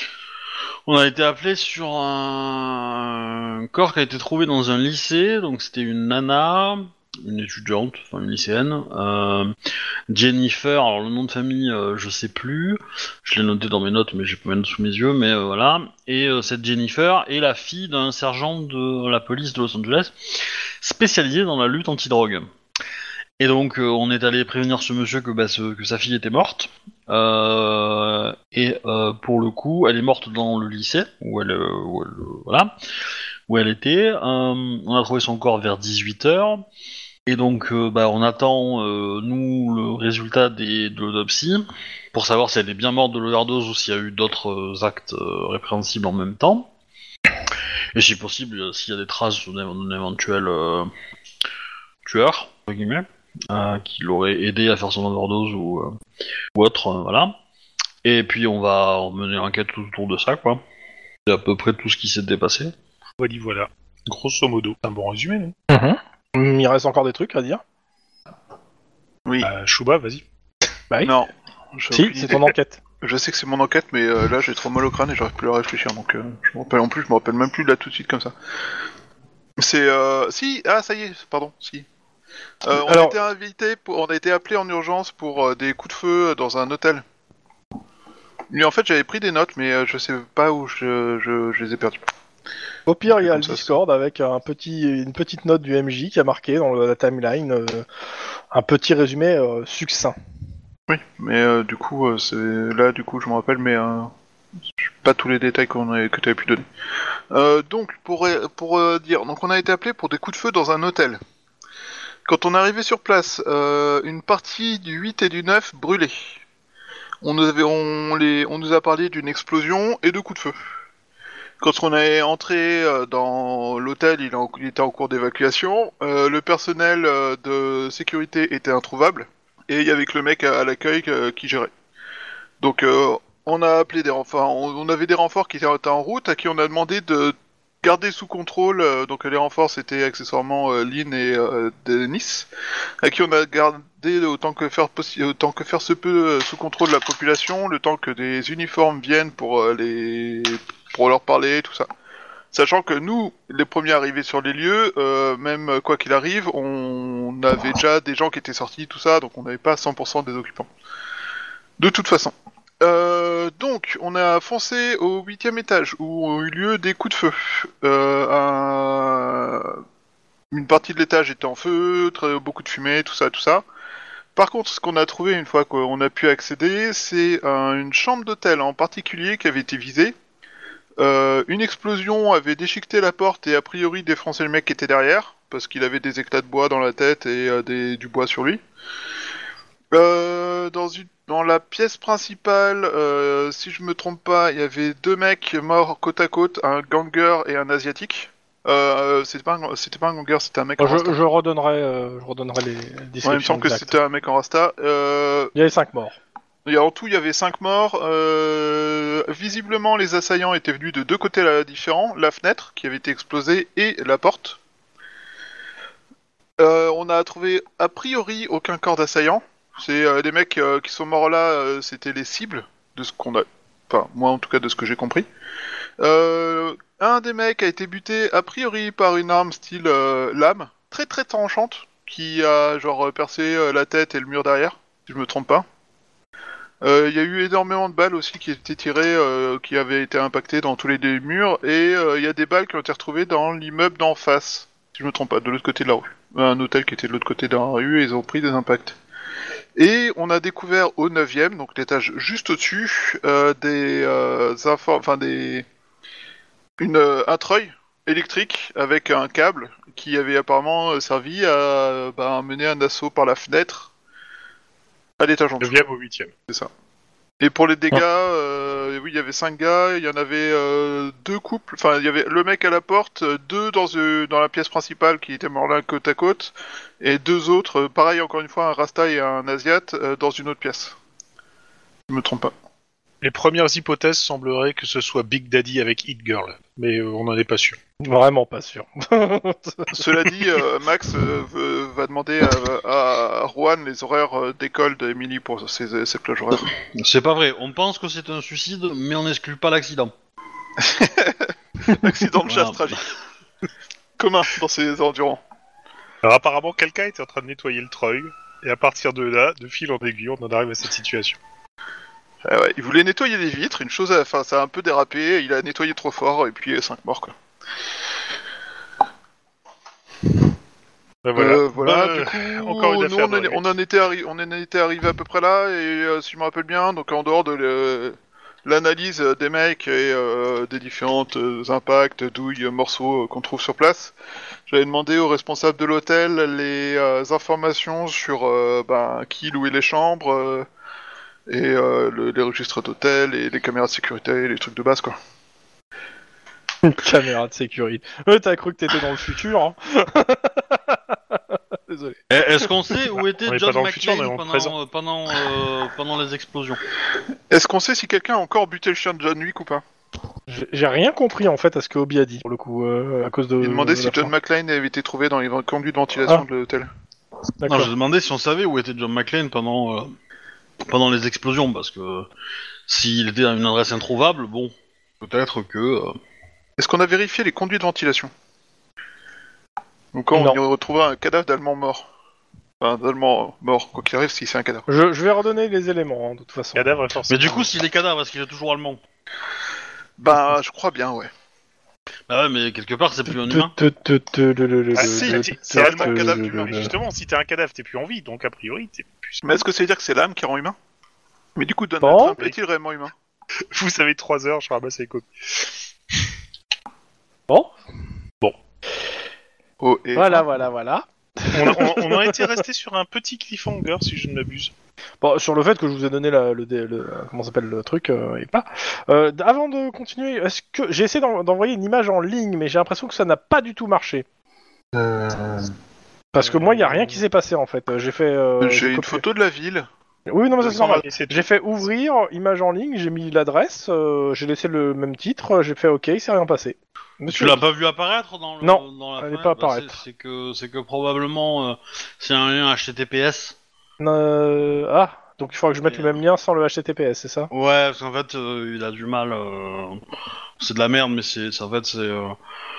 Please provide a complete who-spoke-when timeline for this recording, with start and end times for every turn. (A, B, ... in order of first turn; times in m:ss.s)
0:00.9-0:09.6 A
0:10.1-0:22.5 A
0:23.4-0:32.8 A
0:33.5-0:36.6 A
0:37.3-0:46.7 A
0:47.9-0:50.9 A
0:52.0-0:56.0 A
0:56.5-0:57.4 A
0:58.0-1:00.6 A
1:01.3-1:02.7 A
1:03.2-1:05.6 B
1:05.7-1:07.6 C
1:09.4-1:10.2 B
1:10.9-1:11.2 C
1:11.0-1:18.3 D
1:11.9-1:12.8 C
1:19.6-1:21.9 D
1:22.6-1:27.0 D
1:22.7-1:23.2 C
1:28.5-1:32.0 D
1:32.9-1:37.9 C
1:33.2-1:33.7 D
1:38.5-1:40.2 C
1:40.9-1:44.1 D
1:44.8-1:46.6 D
1:47.3-1:51.2 D
1:52.3-1:56.4 D
1:57.2-2:00.6 D
2:01.6-2:11.7 D
2:12.6-2:22.5 D
2:23.0-2:31.9 D
2:32.5-2:40.7 D
2:41.8-2:49.8 D
2:50.5-2:53.6 D
2:54.4-3:00.2 D
3:01.0-3:08.6 D
3:09.9-3:21.2 D
3:20.8-3:24.0 C
3:23.2-3:25.5 D
3:25.6-3:26.2 C
3:26.6-3:34.6 D
3:36.6-3:45.3 D
3:46.0-3:55.7 D
3:56.8-4:09.0 D
4:09.8-4:15.7 D
4:16.8-4:23.9 D
4:25.2-4:25.8 D
4:25.6-4:26.3 B
4:27.4-4:41.0 D
4:42.1-4:42.5 D
4:43.2-4:47.8 B
4:48.0-4:50.0 C
4:49.9-4:56.7 D
4:56.7-5:00.1 A
5:00.8-5:03.0 D
5:02.0-5:03.0 A
5:04.2-5:05.4 D
5:06.2-5:11.4 B
5:12.4-5:17.4 D
5:21.2-5:23.6 B
5:21.4-5:34.2 D
5:34.7-5:40.7 D
5:41.5-5:45.2 D
5:46.8-5:52.2 C
5:52.3-5:56.8 A
5:53.5-5:54.7 B
5:57.5-5:59.8 D
6:00.5-6:04.3 C
6:03.6-6:06.9 D
6:07.6-6:07.9 C
6:07.6-6:10.2 A
6:10.8-6:12.3 A
6:12.9-6:16.2 A
6:16.8-6:18.3 D
6:20.1-6:22.1 D
6:20.3-6:20.6 C
6:22.8-6:24.9 D
6:24.9-6:26.9 C
6:26.8-6:27.7 B
6:27.3-6:29.0 A
6:30.2-6:31.3 D
6:32.3-6:33.7 A
6:33.3-6:36.9 C
6:34.9-6:39.4 B
6:35.0-6:36.9 D
6:39.4-6:40.8 D
6:41.6-6:43.1 D
6:42.0-6:42.5 C
6:43.7-6:45.3 B
6:49.8-6:50.5 D
6:50.2-6:52.5 C
6:51.5-6:54.7 B
6:55.2-7:04.2 C
7:04.9-7:05.7 D
7:06.3-7:09.2 C
7:06.4-7:07.2 B
7:08.6-7:09.9 D
7:10.3-7:17.6 C
7:10.6-7:11.5 B
7:17.3-7:23.6 A
7:18.6-7:20.0 C
7:24.0-7:27.5 C
7:27.5-7:30.0 A
7:30.6-7:32.4 A